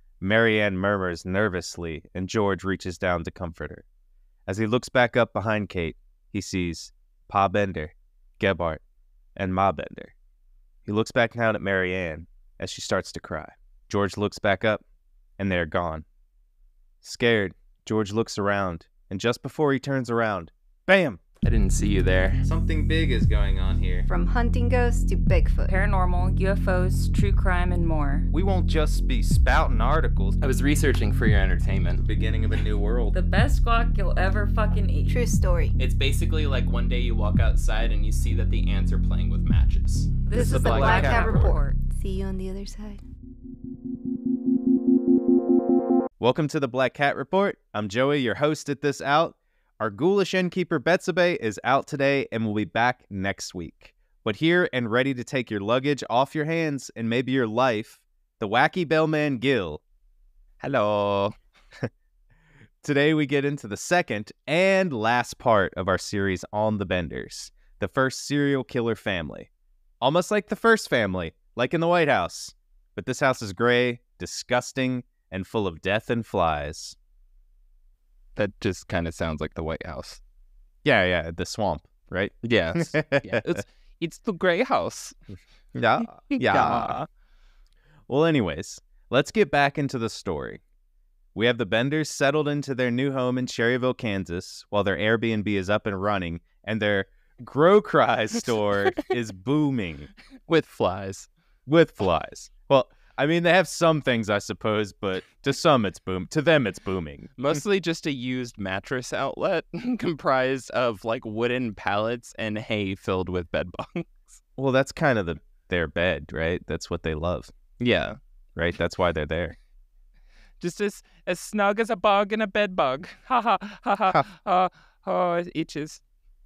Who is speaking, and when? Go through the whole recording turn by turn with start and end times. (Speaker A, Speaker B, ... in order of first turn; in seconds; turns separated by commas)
Speaker A: 0.2-3.8, Speaker A: 4.5-8.8, Speaker A: 9.4-10.1, Speaker A: 10.9-14.8, Speaker A: 15.4-16.1, Speaker A: 17.0-21.2, Speaker B: 21.4-22.4, Speaker A: 22.4-24.1, Speaker C: 24.1-25.7, Speaker D: 25.7-28.3, Speaker A: 28.3-30.4, Speaker B: 30.4-32.0, Speaker A: 32.0-33.2, Speaker D: 33.1-35.2, Speaker C: 35.1-35.8, Speaker B: 35.8-41.6, Speaker D: 40.2-41.8, Speaker C: 40.3-43.0, Speaker A: 40.4-41.3, Speaker A: 46.2-59.8, Speaker B: 60.6-61.4, Speaker A: 62.8-69.5, Speaker A: 70.0-77.0, Speaker B: 78.3-80.2, Speaker A: 80.8-83.6, Speaker B: 82.4-85.2, Speaker A: 85.7-87.0, Speaker B: 86.3-87.0, Speaker A: 88.1-90.6, Speaker A: 91.3-100.1, Speaker B: 98.5-99.0, Speaker B: 100.5-101.3, Speaker A: 101.7-107.6, Speaker B: 107.4-114.4, Speaker A: 114.6-117.5, Speaker B: 117.8-118.2, Speaker A: 118.5-119.6, Speaker B: 120.6-126.0